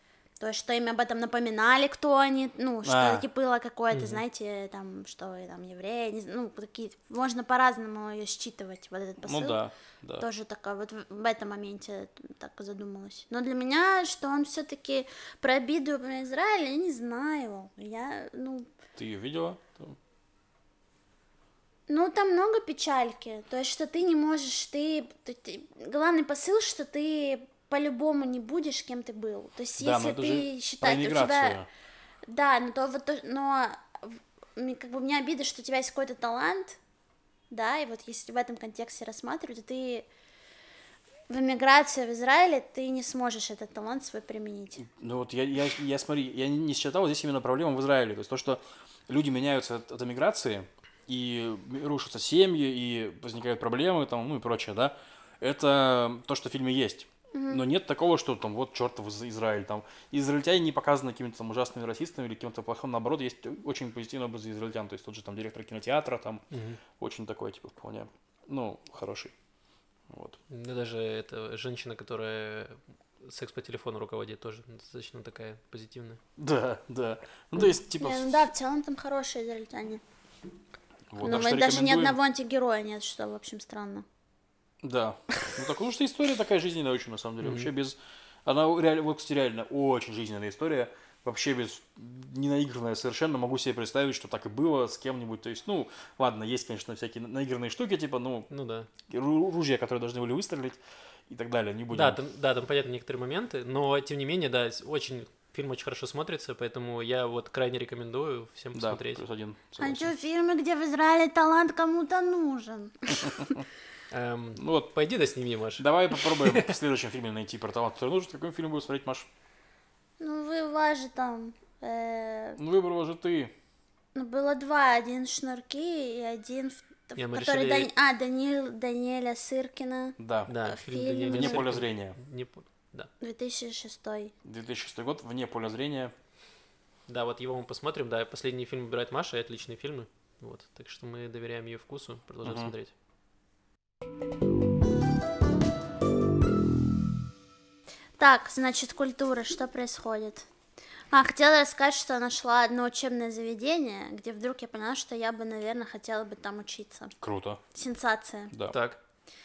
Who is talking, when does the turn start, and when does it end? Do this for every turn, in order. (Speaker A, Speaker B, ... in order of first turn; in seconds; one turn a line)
Speaker A: 0.4-9.6
Speaker B: 2.8-3.2
Speaker C: 3.9-4.2
Speaker B: 9.2-10.2
Speaker A: 10.2-18.7
Speaker B: 19.0-20.0
Speaker A: 21.9-31.6
Speaker B: 29.8-31.7
Speaker A: 32.3-36.8
Speaker A: 37.5-40.1
Speaker A: 41.3-44.8
Speaker B: 44.8-66.5
Speaker A: 57.3-57.6
Speaker C: 66.5-66.8
Speaker B: 67.0-69.3
Speaker B: 70.1-70.4
Speaker C: 70.5-76.2
Speaker B: 76.4-78.3
Speaker A: 78.0-80.0
Speaker B: 81.1-82.2
Speaker A: 81.2-84.0
Speaker B: 84.8-98.5
Speaker C: 87.4-87.7
Speaker C: 98.5-98.9
Speaker B: 99.0-102.2
Speaker C: 101.9-109.2
Speaker B: 108.7-110.1
Speaker A: 109.8-113.6
Speaker C: 114.1-116.7
Speaker B: 114.6-114.9
Speaker B: 115.8-119.3
Speaker A: 120.2-122.6
Speaker B: 122.6-123.5
Speaker A: 124.1-131.7
Speaker C: 127.2-127.9
Speaker B: 130.2-130.5
Speaker C: 130.5-133.1
Speaker B: 131.3-132.2
Speaker A: 133.2-134.3
Speaker B: 134.4-136.1
Speaker C: 137.1-142.9
Speaker B: 142.4-142.7
Speaker A: 148.2-150.5
Speaker A: 151.1-157.2
Speaker B: 157.2-157.6
Speaker A: 157.7-158.5
Speaker B: 158.5-158.8
Speaker C: 158.7-159.0